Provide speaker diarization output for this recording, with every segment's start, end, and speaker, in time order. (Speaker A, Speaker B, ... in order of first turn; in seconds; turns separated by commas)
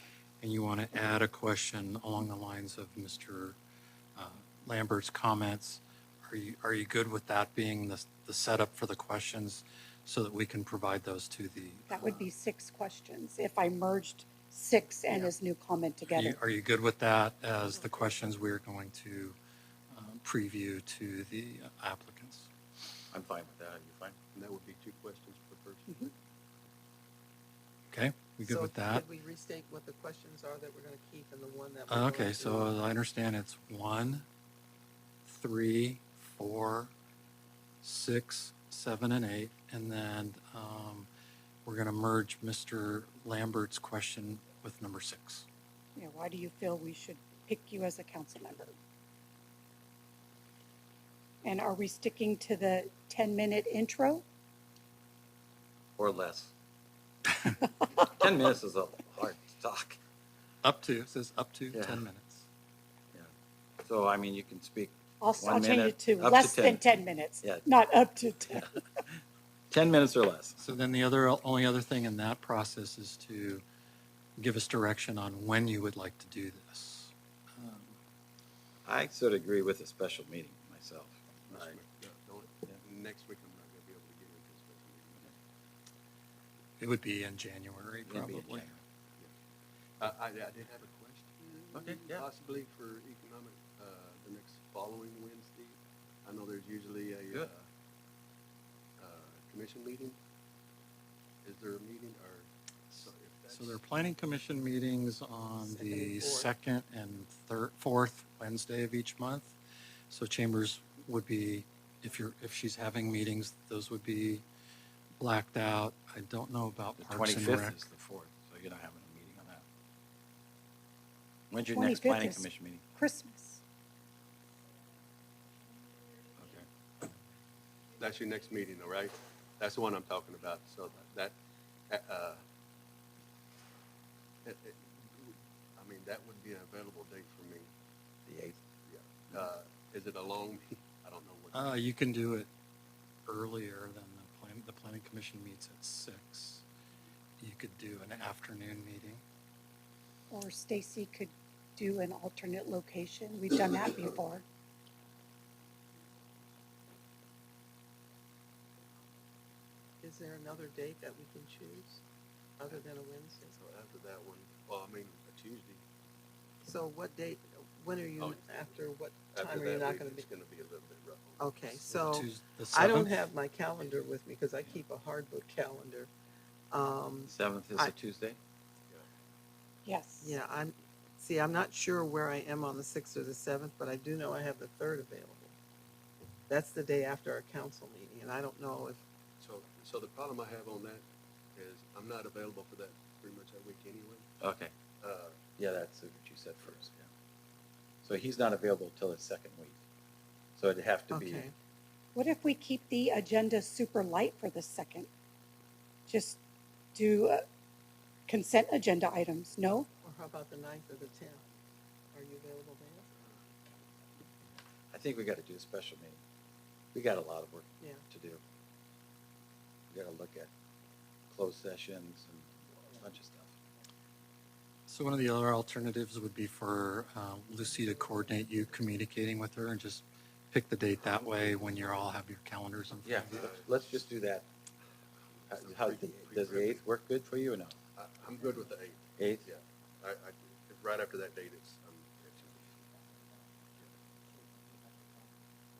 Speaker A: 0.4-3.6, Speaker A: 4.2-12.3, Speaker B: 11.9-16.4, Speaker A: 16.1-19.4, Speaker A: 19.9-22.5, Speaker C: 23.1-24.1, Speaker D: 24.3-26.1, Speaker A: 27.9-29.1, Speaker E: 28.4-32.7, Speaker A: 31.9-34.2, Speaker A: 35.2-36.9, Speaker A: 37.8-41.1, Speaker A: 41.6-45.5, Speaker B: 46.0-48.7, Speaker B: 51.4-54.2, Speaker C: 56.0-56.5, Speaker C: 58.0-60.0, Speaker A: 60.6-62.5, Speaker C: 61.7-62.0, Speaker C: 63.8-66.8, Speaker B: 65.2-68.8, Speaker C: 67.4-67.7, Speaker C: 69.7-70.6, Speaker A: 70.6-73.6, Speaker A: 74.4-78.0, Speaker C: 78.8-81.8, Speaker D: 81.5-85.3, Speaker A: 86.8-88.8, Speaker C: 88.0-88.8, Speaker D: 90.0-97.7, Speaker C: 91.7-92.2, Speaker D: 99.0-100.2, Speaker D: 101.4-103.8, Speaker A: 103.5-109.6, Speaker E: 105.6-106.5, Speaker A: 110.1-114.4, Speaker A: 115.2-117.8, Speaker C: 117.0-119.6, Speaker C: 121.5-122.8, Speaker B: 121.7-123.6, Speaker C: 126.4-126.7, Speaker D: 128.0-131.3, Speaker D: 131.9-132.4, Speaker D: 134.4-137.7, Speaker C: 138.3-138.5, Speaker D: 138.8-141.8, Speaker A: 141.5-142.5, Speaker A: 143.2-146.6, Speaker A: 147.4-149.2, Speaker B: 150.3-154.4, Speaker E: 160.0-162.0, Speaker E: 162.6-163.6, Speaker D: 163.5-165.8, Speaker E: 166.6-170.3, Speaker D: 168.2-171.7, Speaker E: 171.4-176.1, Speaker A: 171.9-173.1, Speaker E: 176.7-177.9, Speaker C: 177.2-178.4, Speaker B: 179.8-180.4, Speaker E: 180.2-185.5, Speaker E: 186.5-189.0, Speaker D: 189.4-194.2, Speaker C: 194.4-194.7, Speaker D: 195.0-195.4, Speaker C: 195.6-197.0, Speaker C: 198.0-199.8, Speaker C: 200.6-201.4, Speaker E: 201.1-201.5, Speaker B: 202.1-205.1, Speaker B: 206.1-206.4, Speaker B: 206.9-207.4, Speaker B: 208.3-209.9, Speaker E: 210.0-211.4, Speaker E: 212.1-213.1, Speaker C: 214.9-216.2, Speaker C: 216.9-218.4, Speaker C: 219.9-220.5, Speaker C: 221.3-223.5, Speaker A: 224.9-233.5, Speaker D: 231.2-231.8, Speaker C: 233.0-234.5, Speaker D: 233.3-233.7, Speaker D: 235.4-236.8, Speaker C: 235.5-237.7, Speaker D: 237.9-242.8, Speaker C: 239.2-239.4